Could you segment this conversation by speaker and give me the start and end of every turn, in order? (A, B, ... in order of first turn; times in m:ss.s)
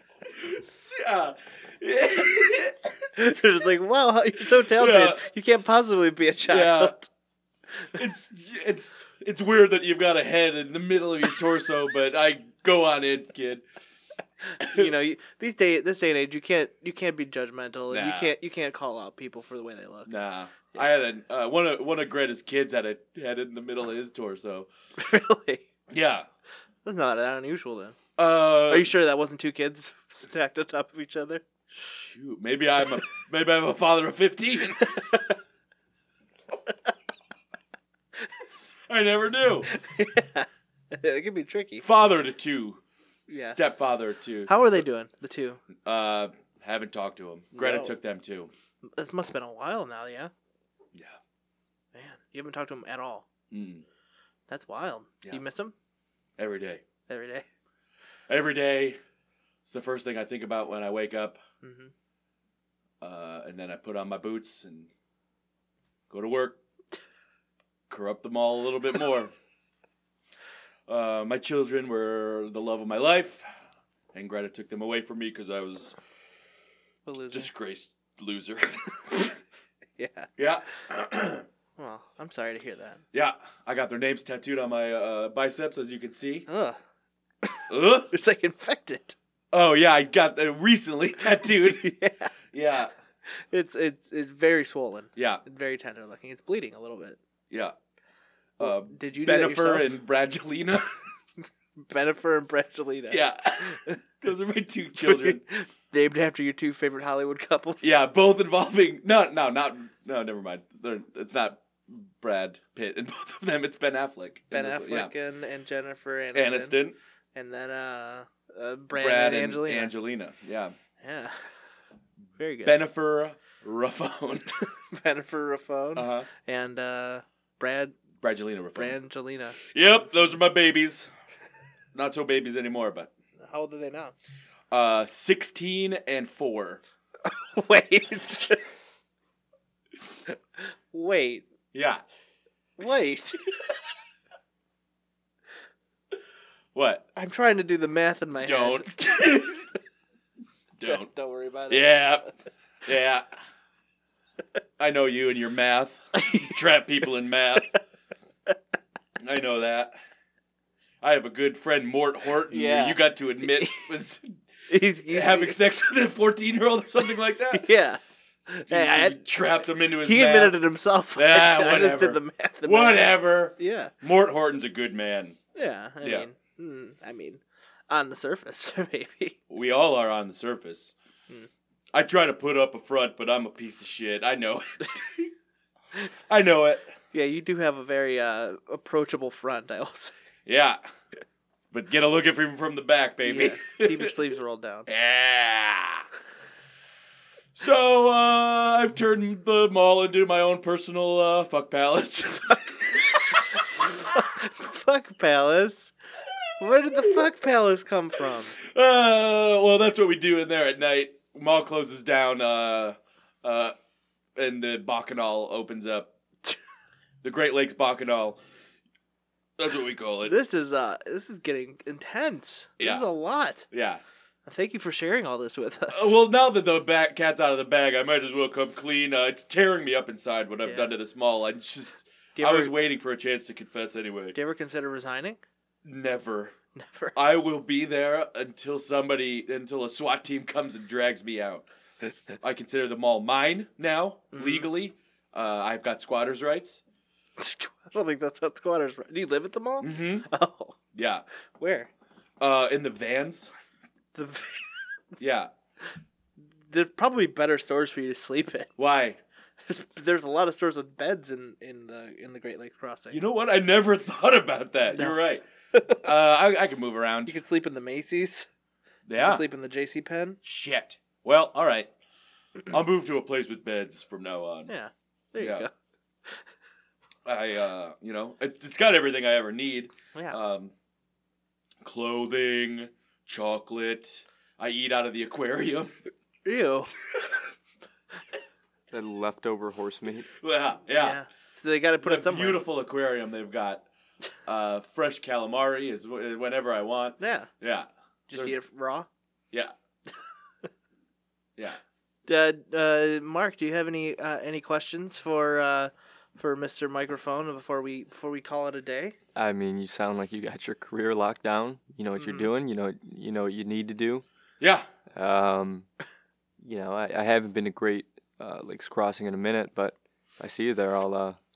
0:00.4-0:02.9 A
0:03.2-0:07.1 B
0:04.6-0:05.2 A
0:06.5-0:06.9 A
0:07.9-0:13.6 A
0:14.6-0:20.1 B
0:14.6-0:14.9 A
0:17.9-0:18.3 A
0:20.1-0:24.7 A
0:25.0-0:25.6 B
0:25.9-0:26.2 A
0:26.8-0:28.0 B
0:28.2-0:28.9 A
0:28.7-0:31.4 B
0:31.7-0:35.1 A
0:38.9-0:39.7 A
0:39.7-0:41.8 B
0:41.8-0:42.8 A
0:43.3-0:43.6 B
0:43.4-0:44.6 A
0:44.5-0:45.6 B
0:45.8-0:48.5 A
0:47.5-0:47.9 B
0:48.9-0:50.3 B
0:51.9-0:53.2 B
0:53.5-0:53.8 A
0:54.5-0:55.7 B
0:56.4-0:56.8 A
0:57.1-0:57.4 B
0:58.3-0:59.0 A
0:59.6-1:01.4 A
1:01.6-1:01.9 B
1:03.0-1:04.9 A
1:06.1-1:06.6 A
1:07.9-1:09.3 A
1:10.9-1:13.4 A
1:14.1-1:16.0 A
1:17.0-1:17.5 B
1:17.3-1:19.4 A
1:20.0-1:20.3 B
1:20.4-1:21.4 A
1:21.8-1:23.0 B
1:23.1-1:26.5 A
1:26.5-1:26.8 B
1:27.4-1:29.2 B
1:27.7-1:28.1 A
1:29.5-1:31.9 A
1:31.6-1:32.3 B
1:32.5-1:32.9 A
1:33.3-1:37.2 B
1:35.2-1:35.4 A
1:38.6-1:40.9 A
1:38.6-1:39.9 B
1:41.8-1:44.0 B
1:43.1-1:45.4 A
1:45.0-1:47.9 B
1:47.8-1:55.1 A
1:54.5-1:56.7 B
1:56.3-1:57.0 A
1:57.3-1:59.9 B
1:58.9-2:00.7 A
2:01.0-2:01.4 B
2:02.4-2:02.7 B
2:02.6-2:04.5 A
2:04.9-2:08.0 B
2:06.0-2:06.3 A
2:08.2-2:09.0 A
2:08.8-2:09.6 B
2:09.7-2:11.1 A
2:11.9-2:13.1 A
2:13.4-2:14.1 B
2:14.7-2:16.8 A
2:17.3-2:18.6 B
2:20.9-2:21.4 B
2:21.7-2:22.0 A
2:22.8-2:23.5 B
2:26.7-2:27.0 A
2:27.2-2:29.6 B
2:28.4-2:29.6 A
2:30.8-2:31.1 A
2:30.8-2:32.0 B
2:31.7-2:32.3 A
2:32.8-2:33.2 A
2:34.8-2:37.8 A
2:36.2-2:36.4 B
2:39.2-2:39.9 A
2:41.0-2:44.3 A
2:42.5-2:44.0 B
2:44.7-2:45.6 B
2:45.1-2:47.7 A
2:47.5-2:49.2 B
2:48.7-2:50.6 A
2:50.0-2:53.9 B
2:51.2-2:55.4 A
2:55.5-2:59.4 B
2:59.5-3:00.9 A
3:01.9-3:05.3 A
3:06.3-3:06.8 A
3:07.1-3:10.1 B
3:10.4-3:10.8 A
3:11.7-3:14.1 A
3:13.2-3:14.9 B
3:14.9-3:16.0 A
3:17.5-3:23.2 A
3:24.0-3:25.9 B
3:26.6-3:28.5 B
3:28.6-3:33.7 A
3:34.4-3:36.1 A
3:37.2-3:38.4 A
3:39.6-3:40.3 A
3:40.2-3:43.6 B
3:42.8-3:43.0 A
3:43.7-3:44.0 A
3:44.4-3:46.1 B
3:45.9-3:54.4 A
3:50.6-3:50.9 B
3:52.4-3:52.7 B
3:54.3-3:55.4 B
3:55.8-3:56.5 A
3:56.8-3:57.1 B
3:57.1-4:01.6 A
4:02.4-4:06.8 A
4:04.3-4:04.7 B
4:07.4-4:10.8 B
4:09.8-4:10.2 A
4:10.9-4:11.2 A
4:11.6-4:11.9 B
4:12.4-4:13.5 A
4:14.1-4:15.2 B
4:15.2-4:15.5 A
4:16.7-4:18.7 B
4:18.8-4:19.2 A
4:19.6-4:23.2 B
4:23.1-4:27.4 A
4:27.2-4:28.5 B
4:29.1-4:29.4 A
4:29.2-4:30.4 B
4:30.4-4:31.9 A
4:32.7-4:34.7 A
4:34.7-4:35.7 B
4:35.4-4:35.6 A
4:37.2-4:40.7 A
4:41.8-4:45.9 A
4:46.4-4:46.9 B
4:48.9-4:50.3 C
4:50.4-4:51.2 A
4:51.0-4:52.6 B
4:52.0-4:53.8 A
4:54.4-4:58.5 A
4:57.2-4:57.5 B
4:58.3-4:59.1 B
5:02.3-5:09.2 B
5:09.3-5:14.2 C
5:12.2-5:12.5 B
5:14.6-5:14.8 A
5:15.1-5:15.9 C
5:16.6-5:21.4 C